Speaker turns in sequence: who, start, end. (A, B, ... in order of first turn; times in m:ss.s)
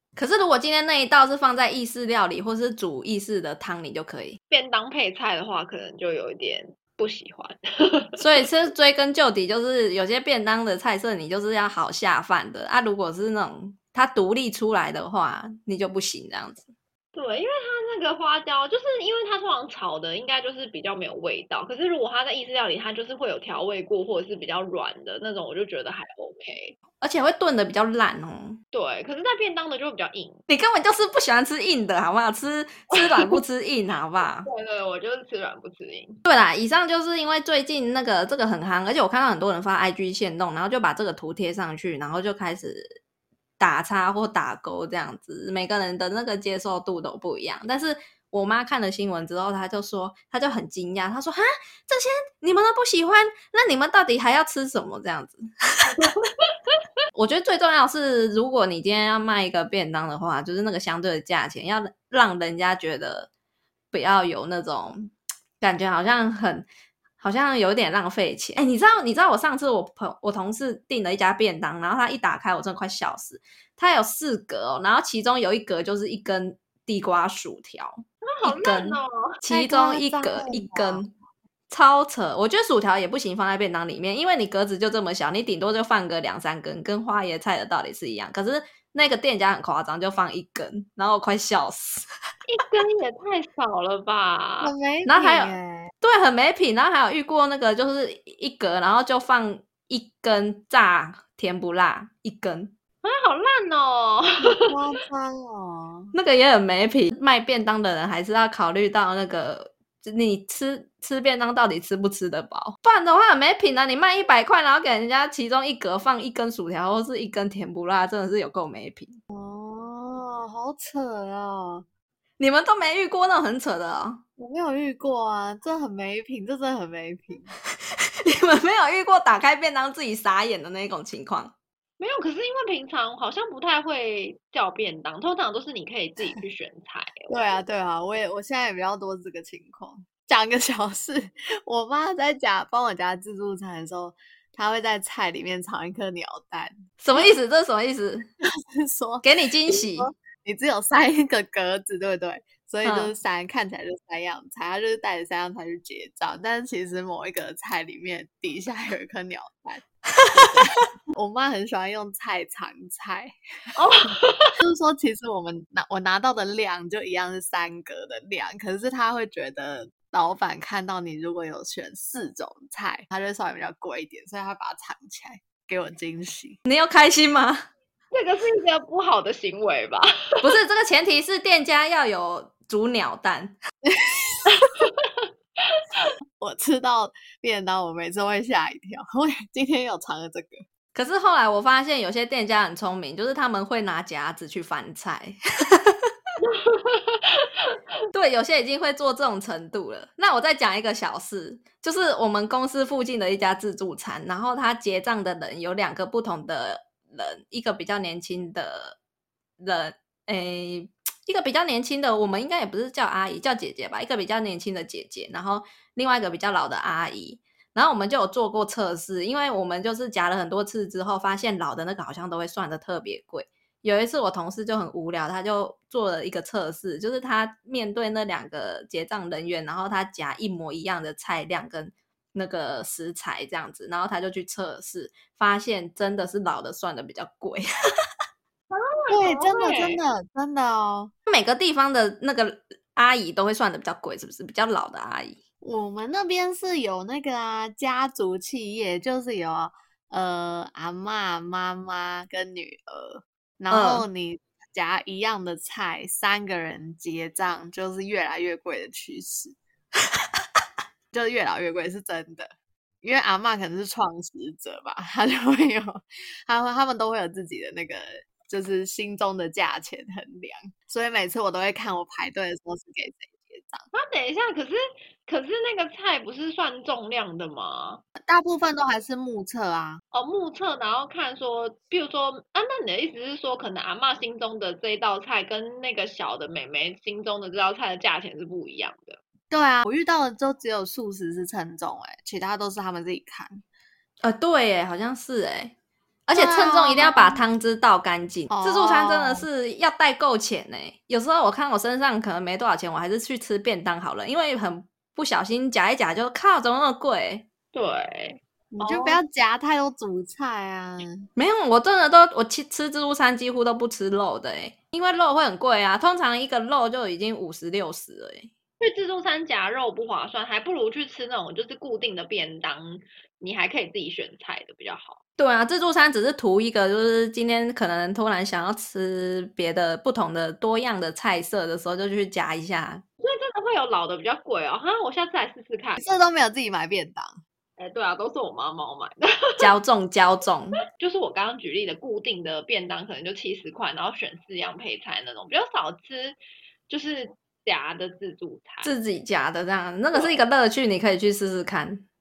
0:00.2-0:04.4 A
0:04.5-0:08.5 B
0:08.2-0:16.7 A
0:17.1-0:26.8 B
0:27.0-0:28.6 A
0:28.7-0:30.4 B
0:30.5-0:34.5 A
0:32.9-0:33.4 B
0:34.2-0:36.2 B
0:36.2-0:43.0 A
0:43.6-0:55.9 A
0:55.9-0:56.8 B
0:57.1-1:03.3 A
1:03.9-1:06.7 A
1:07.2-1:21.1 A
1:18.3-1:19.4 B
1:19.5-1:21.1 C
1:21.7-1:32.1 A
1:32.5-1:34.7 B
1:34.6-1:35.9 C
1:35.1-1:42.7 A
1:43.0-1:44.7 B
1:44.7-1:46.1 C
1:46.1-1:59.2 A
1:59.3-2:01.8 C
2:02.4-2:04.2 A
2:04.4-2:07.5 C
2:08.2-2:11.5 A
2:12.0-2:17.6 B
2:17.3-2:27.3 C
2:27.0-2:28.3 A
2:28.4-2:43.4 C
2:29.2-2:30.1 A
2:32.8-2:33.1 A
2:40.2-2:40.6 A
2:43.8-2:44.6 B
2:44.6-2:56.6 C
2:56.7-2:57.6 A
2:58.1-3:00.5 B
3:00.4-3:03.6 A
3:03.8-3:04.5 C
3:04.5-3:06.1 B
3:06.4-3:10.6 C
3:10.9-3:16.0 A
3:16.4-3:17.8 B
3:18.1-3:29.0 A
3:29.6-3:57.7 A
3:58.7-4:00.0 B
3:59.1-4:01.1 C
4:01.3-4:05.4 A
4:05.6-4:19.6 C
4:13.7-4:14.1 A
4:21.1-4:22.5 C
4:23.0-4:33.9 C
4:33.9-4:38.0 B
4:38.2-4:40.0 C
4:40.1-4:49.2 B
4:49.5-4:53.6 C
4:54.2-4:55.7 A
4:56.3-5:07.5 A
4:56.3-4:57.4 C
4:58.5-4:59.5 C
5:07.7-5:09.2 B
5:08.7-5:11.3 C
5:11.4-5:18.5 A
5:18.8-5:25.2 B
5:25.4-5:33.0 A
5:33.2-5:36.0 B
5:36.0-5:37.4 C
5:37.8-5:39.7 B
5:39.6-5:40.8 A
5:40.9-5:46.4 B
5:46.9-5:48.9 B
5:48.8-5:52.0 A
5:50.1-5:50.4 B